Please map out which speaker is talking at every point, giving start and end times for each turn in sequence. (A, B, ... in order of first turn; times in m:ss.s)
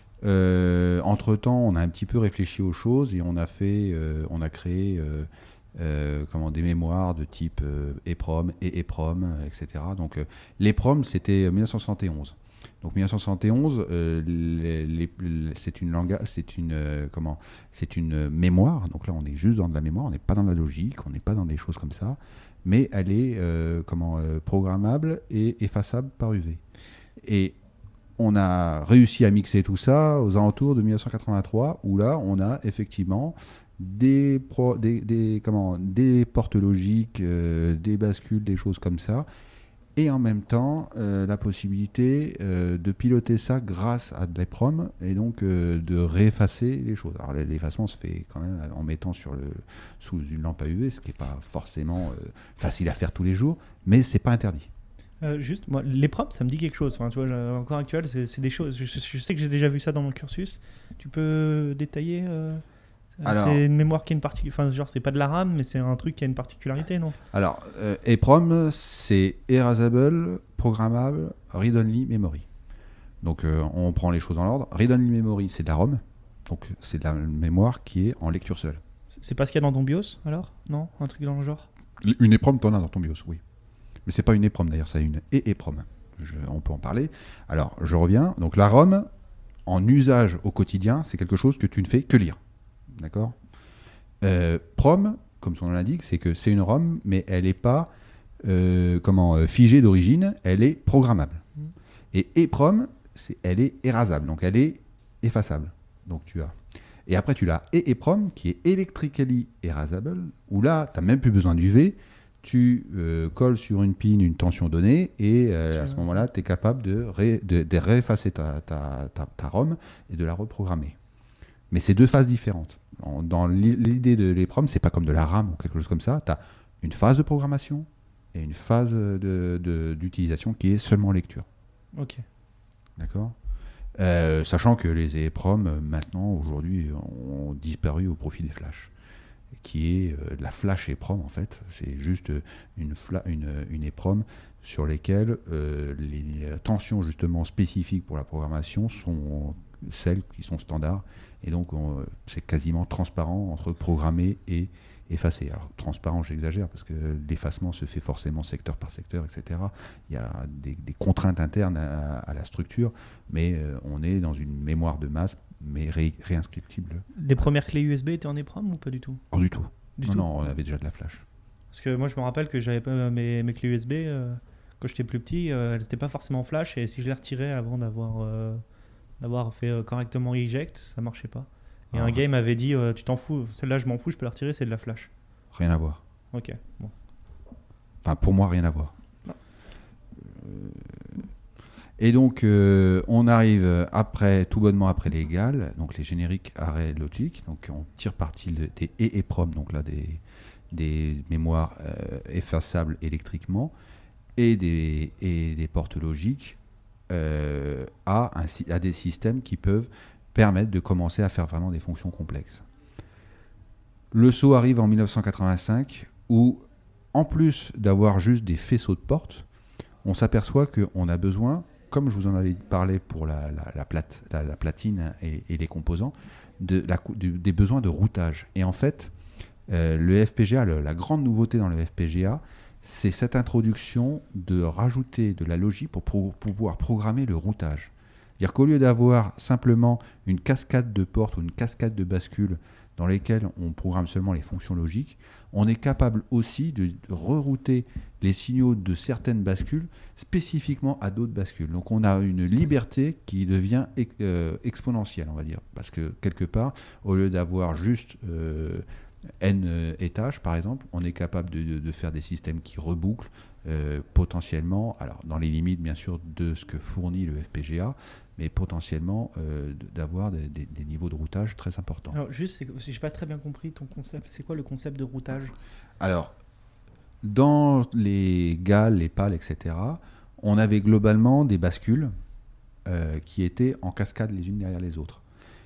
0:00.2-0:26.6 A
0:27.2-0:27.6 A
0:28.2-0:39.3 A
0:40.0-0:54.7 A
0:55.2-1:02.6 B
1:03.2-1:07.2 B
1:03.2-1:03.6 A
1:07.3-1:12.5 A
1:13.2-1:18.8 A
1:19.1-1:21.7 B
1:22.0-1:23.4 A
1:24.1-1:29.1 A
1:29.7-1:33.4 A
1:34.2-1:37.9 A
1:38.4-1:41.4 A
1:42.1-2:01.0 A
2:01.7-2:11.5 A
2:12.0-2:12.2 B
2:13.0-2:13.4 A
2:14.0-2:18.9 A
2:19.6-2:47.0 A
2:47.2-2:49.2 B
2:49.3-2:51.2 A
2:50.0-2:50.3 B
2:51.7-2:58.6 B
2:59.2-3:05.1 B
3:01.9-3:02.2 A
3:05.5-3:06.0 A
3:06.3-3:06.9 B
3:08.0-3:08.9 A
3:10.2-3:11.3 A
3:12.0-3:23.7 A
3:24.4-3:26.6 A
3:27.1-3:32.6 A
3:34.1-3:39.5 A
3:40.0-3:49.1 A
3:49.7-4:18.8 A
4:19.4-4:32.2 A
4:32.1-4:35.5 B
4:36.0-4:36.4 A
4:37.2-4:42.1 A
4:42.9-4:45.2 A